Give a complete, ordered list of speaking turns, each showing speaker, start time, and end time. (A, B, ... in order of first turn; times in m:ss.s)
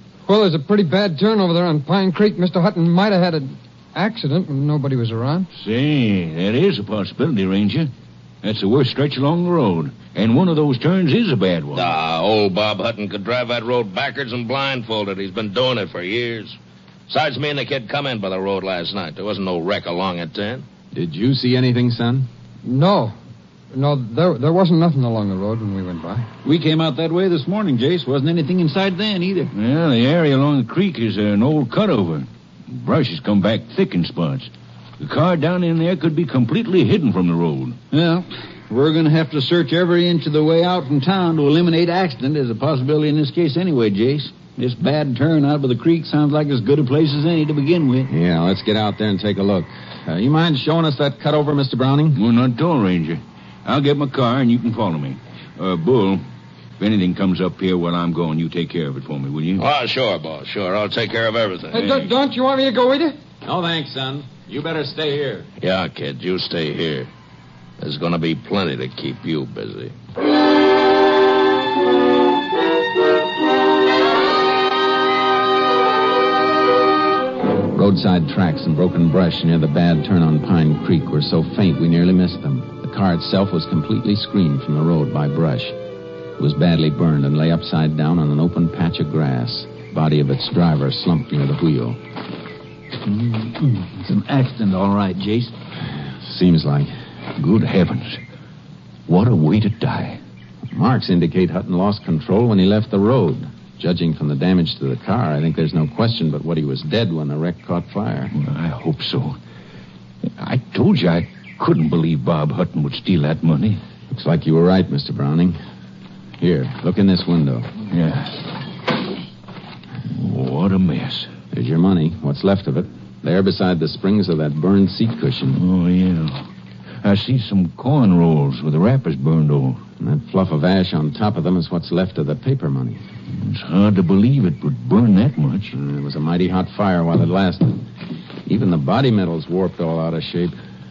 0:00.3-0:05.5 A
0:05.6-0:07.9 B
0:08.4-0:11.9 B
0:11.8-0:16.6 C
0:17.1-0:20.6 C
0:20.9-0:22.3 D
0:22.6-0:23.2 A
0:23.7-0:26.3 A
0:26.4-0:29.5 E
0:29.5-0:37.8 B
0:37.9-0:48.1 E
0:48.1-0:52.2 D
0:52.2-0:56.2 B
0:56.8-0:59.6 B
0:59.6-1:01.9 C
1:01.7-1:03.2 A
1:03.4-1:05.5 D
1:05.6-1:07.1 C
1:07.8-1:09.9 C
1:17.7-1:25.8 D
1:26.4-1:32.0 D
1:33.0-1:35.5 E
1:35.9-1:36.9 D
1:37.4-1:38.2 B
1:39.1-1:40.2 B
1:40.7-1:48.3 D
1:48.3-1:49.4 B
1:50.4-1:53.8 B
1:54.1-1:55.6 D
1:56.4-1:57.7 D
1:57.9-1:58.5 B
2:00.1-2:01.3 B
2:01.5-2:05.6 D
2:05.6-2:06.5 B
2:07.0-2:09.8 B
2:10.0-2:13.0 D
2:13.3-2:15.7 B
2:15.7-2:17.9 D
2:18.5-2:20.6 D